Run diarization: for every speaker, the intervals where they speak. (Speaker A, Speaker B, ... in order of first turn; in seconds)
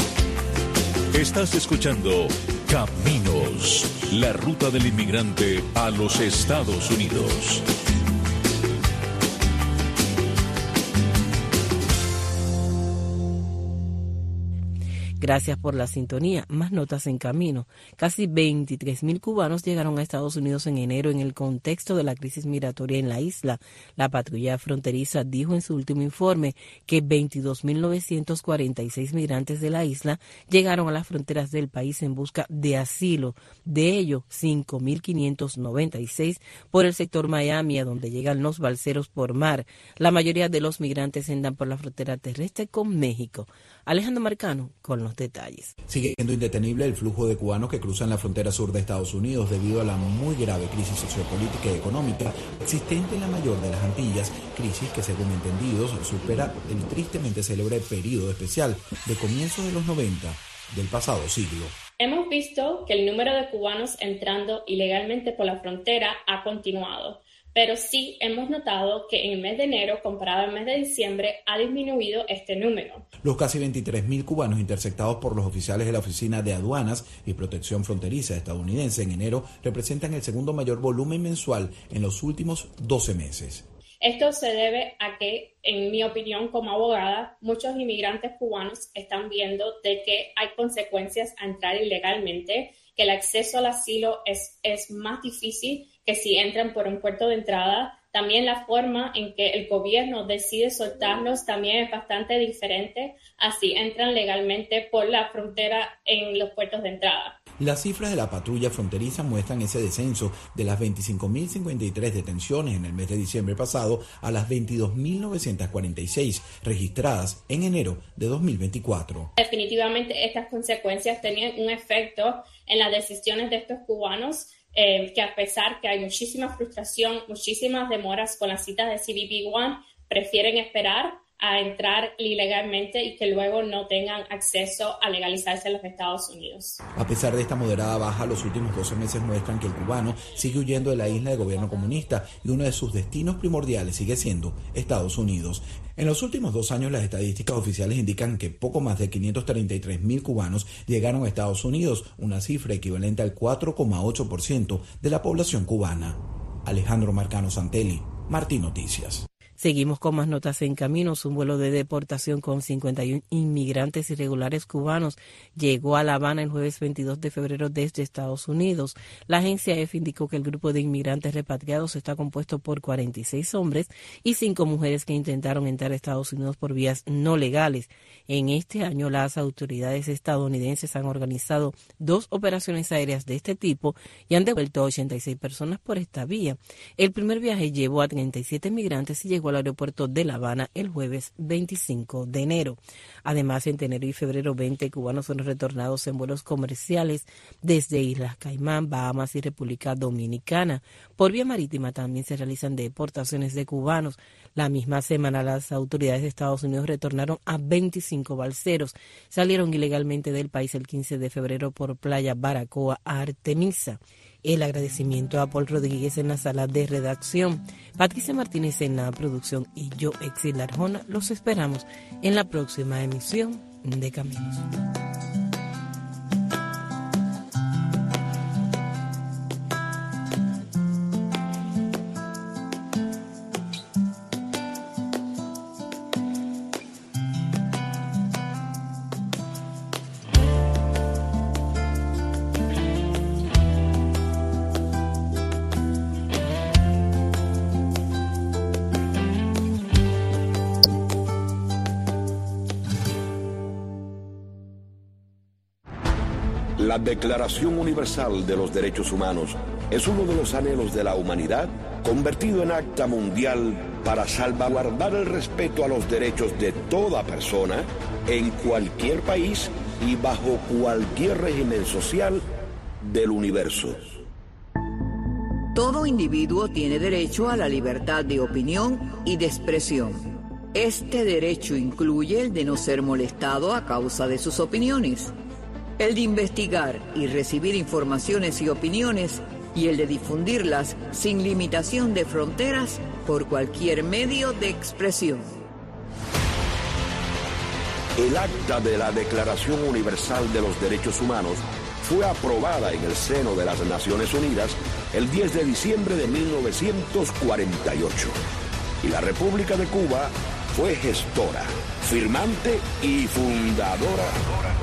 Speaker A: 1.1-7.7
Speaker B: 15.2-45.7, 159.6-224.7
Speaker C: 45.9-61.8, 73.2-83.7, 107.6-119.3, 136.9-159.3
Speaker D: 62.0-73.0, 84.0-107.4, 119.4-136.8
Speaker E: 256.8-272.4, 273.0-274.2, 298.2-308.4, 309.0-314.3
Speaker F: 275.7-285.3, 286.0-295.6